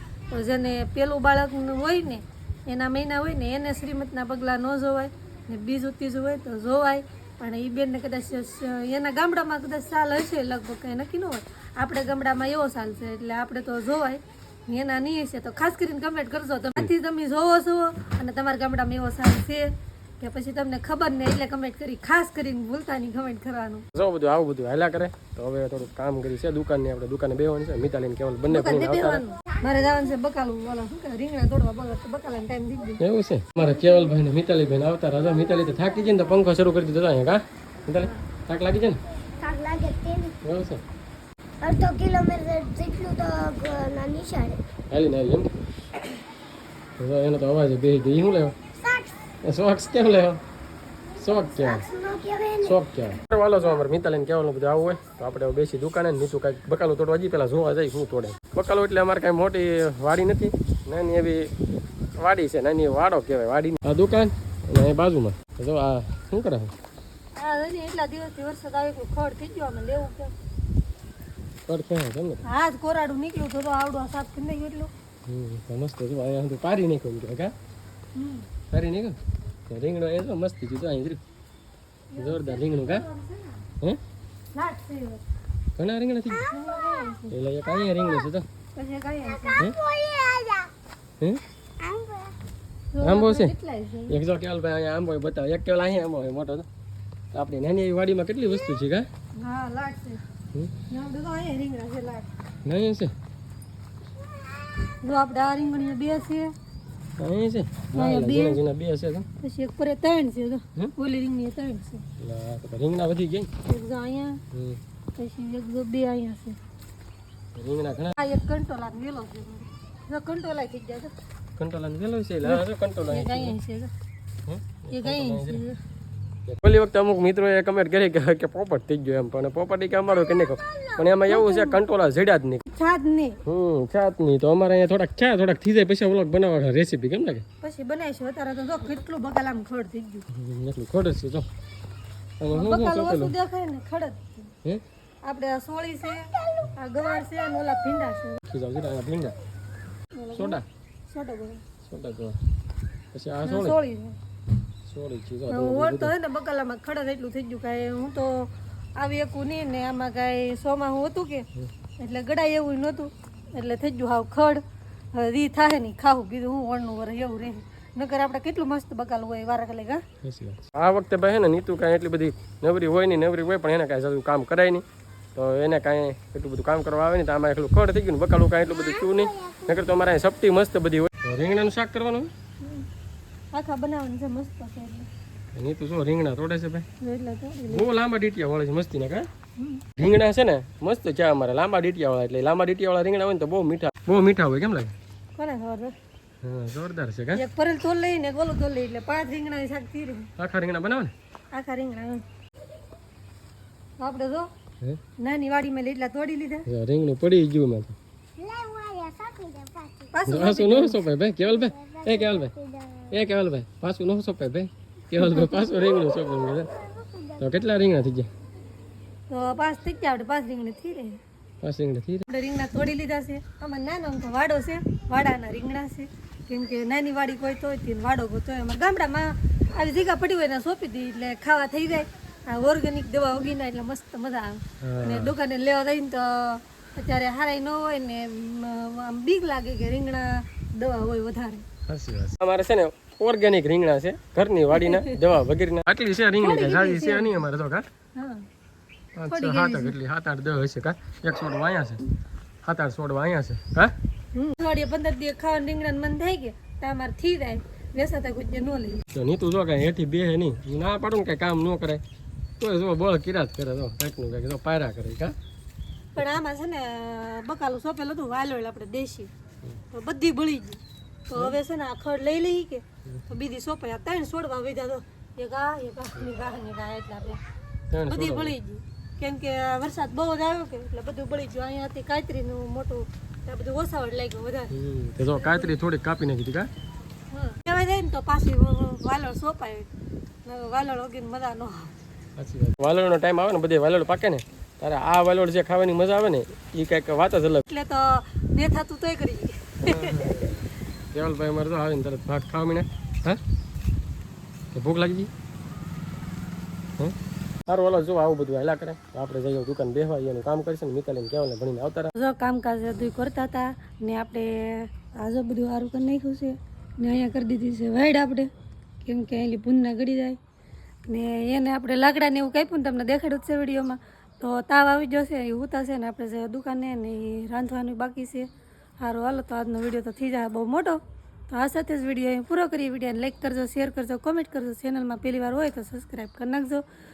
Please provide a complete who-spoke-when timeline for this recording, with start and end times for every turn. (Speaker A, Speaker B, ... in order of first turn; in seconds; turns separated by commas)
Speaker A: 0.3-23.9, Speaker B: 23.9-29.2, Speaker A: 28.5-33.0, Speaker B: 33.0-39.0, Speaker C: 39.4-40.4, Speaker B: 40.4-40.8, Speaker C: 41.6-44.6, Speaker B: 44.9-45.6, Speaker B: 47.0-48.6, Speaker C: 48.8-49.1, Speaker B: 49.4-50.4, Speaker B: 51.2-51.9, Speaker C: 51.3-52.8, Speaker B: 52.6-61.5, Speaker B: 62.2-66.7, Speaker A: 67.4-70.3, Speaker B: 71.7-72.4, Speaker A: 72.5-74.9, Speaker B: 75.2-77.5, Speaker A: 78.1-78.5, Speaker B: 78.7-79.2, Speaker B: 79.7-81.2, Speaker A: 82.1-83.6, Speaker B: 82.2-83.1, Speaker A: 84.5-85.2, Speaker B: 85.8-86.6, Speaker A: 86.3-87.3, Speaker B: 87.3-88.5, Speaker A: 88.8-89.6, Speaker C: 89.4-90.7, Speaker C: 91.8-92.4, Speaker A: 92.9-94.1, Speaker B: 93.0-93.5, Speaker B: 94.1-96.7, Speaker B: 97.3-99.1, Speaker A: 99.4-100.2, Speaker A: 100.9-102.3, Speaker B: 102.6-103.1, Speaker A: 104.8-106.5, Speaker B: 107.2-109.2, Speaker A: 107.9-108.6, Speaker A: 109.4-112.0, Speaker B: 112.2-113.5, Speaker A: 113.6-114.4, Speaker B: 114.5-114.8, Speaker A: 115.1-116.6, Speaker B: 117.5-118.1, Speaker A: 118.2-121.1, Speaker B: 121.6-123.6, Speaker A: 122.4-123.9, Speaker B: 124.4-125.6, Speaker A: 124.9-125.8, Speaker B: 126.5-132.6, Speaker A: 130.7-131.8, Speaker A: 132.7-133.4, Speaker B: 133.4-137.4, Speaker A: 137.6-140.3, Speaker B: 140.3-141.5, Speaker B: 142.4-143.3, Speaker A: 142.5-144.5, Speaker A: 145.2-148.4, Speaker B: 148.5-149.4, Speaker A: 150.1-151.6, Speaker B: 150.3-150.6, Speaker B: 151.8-152.4, Speaker B: 153.1-153.8, Speaker A: 153.4-154.2, Speaker B: 154.9-156.1, Speaker A: 155.5-170.0, Speaker B: 170.2-182.3, Speaker C: 178.7-179.8, Speaker A: 182.6-182.9, Speaker A: 183.5-185.1, Speaker B: 185.5-186.9, Speaker A: 187.0-187.9, Speaker B: 187.7-189.3, Speaker A: 189.6-190.0, Speaker B: 190.0-194.9, Speaker A: 195.4-195.9, Speaker B: 196.4-197.4, Speaker A: 197.4-200.3, Speaker B: 200.4-201.1, Speaker A: 201.5-202.2, Speaker A: 204.0-204.5, Speaker A: 205.2-206.7, Speaker B: 206.7-207.9, Speaker C: 208.4-210.1, Speaker A: 210.1-211.1, Speaker B: 210.3-212.5, Speaker C: 211.5-213.2, Speaker B: 213.1-216.7, Speaker A: 215.2-215.7, Speaker C: 216.1-217.4, Speaker B: 217.4-218.3, Speaker A: 219.3-221.2, Speaker B: 221.6-222.3, Speaker A: 222.3-241.7, Speaker B: 234.8-235.3, Speaker B: 241.9-247.8, Speaker A: 244.8-245.2, Speaker A: 246.4-247.4, Speaker A: 248.2-248.5, Speaker B: 249.2-252.1, Speaker A: 249.3-250.0, Speaker B: 252.6-253.9, Speaker A: 254.3-259.0, Speaker B: 259.1-262.0, Speaker B: 262.6-265.3, Speaker A: 266.1-269.3, Speaker A: 269.9-277.4, Speaker B: 277.9-278.5, Speaker A: 278.1-284.7, Speaker B: 284.7-286.7, Speaker A: 285.3-285.7, Speaker A: 287.3-289.9, Speaker A: 290.4-291.9, Speaker B: 292.4-297.6, Speaker A: 297.7-300.4, Speaker B: 299.9-303.4, Speaker B: 304.7-305.3, Speaker B: 307.7-312.1, Speaker A: 312.1-318.5, Speaker A: 319.0-320.4, Speaker A: 321.1-336.9